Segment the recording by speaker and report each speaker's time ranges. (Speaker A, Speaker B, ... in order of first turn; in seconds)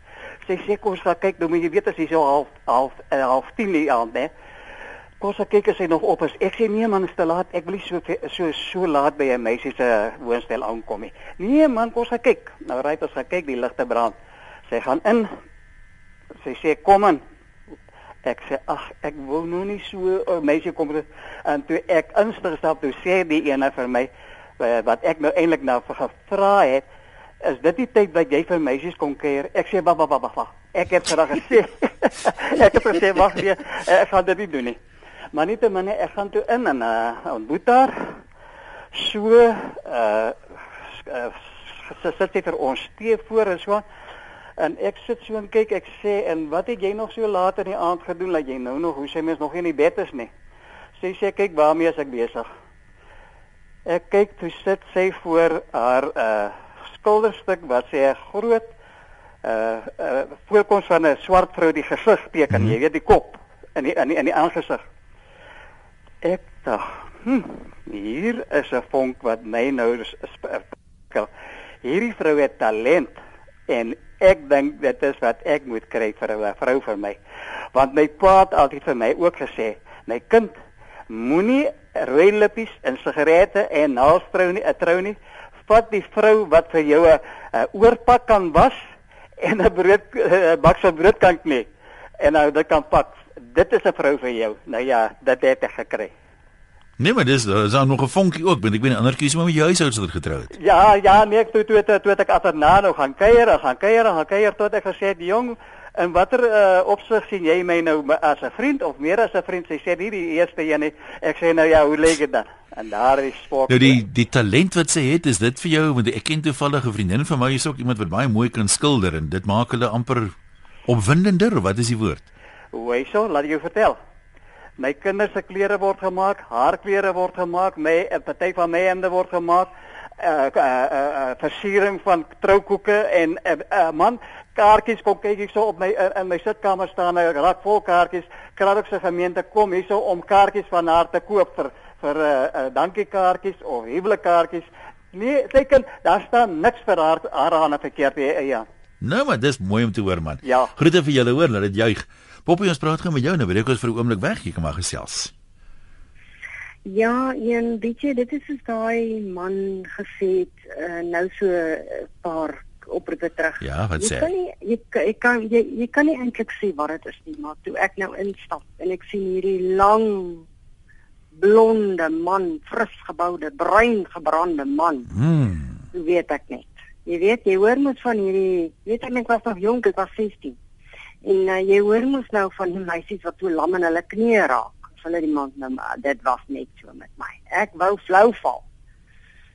Speaker A: 0.4-4.3, 5.2-14.1, 14.7-15.3, 16.4-17.2, 18.2-26.9, 27.4-34.8, 35.3-38.2, 38.9-40.4, 41.0-43.8, 44.6-50.3, 51.0-52.5, 53.9-58.7, 59.4-64.8, 66.2-71.3, 71.8-77.2, 77.7-80.6, 81.1-88.8, 89.4-91.7, 92.2-96.1, 100.6-114.0, 122.7-124.0, 124.8-148.7, 150.4-150.7
Speaker B: 62.5-62.8, 97.0-100.5, 113.7-120.3, 120.9-122.3, 149.0-155.3, 163.6-164.3, 175.1-175.8
Speaker C: 156.8-170.4, 171.3-175.1, 175.9-180.6, 181.2-188.6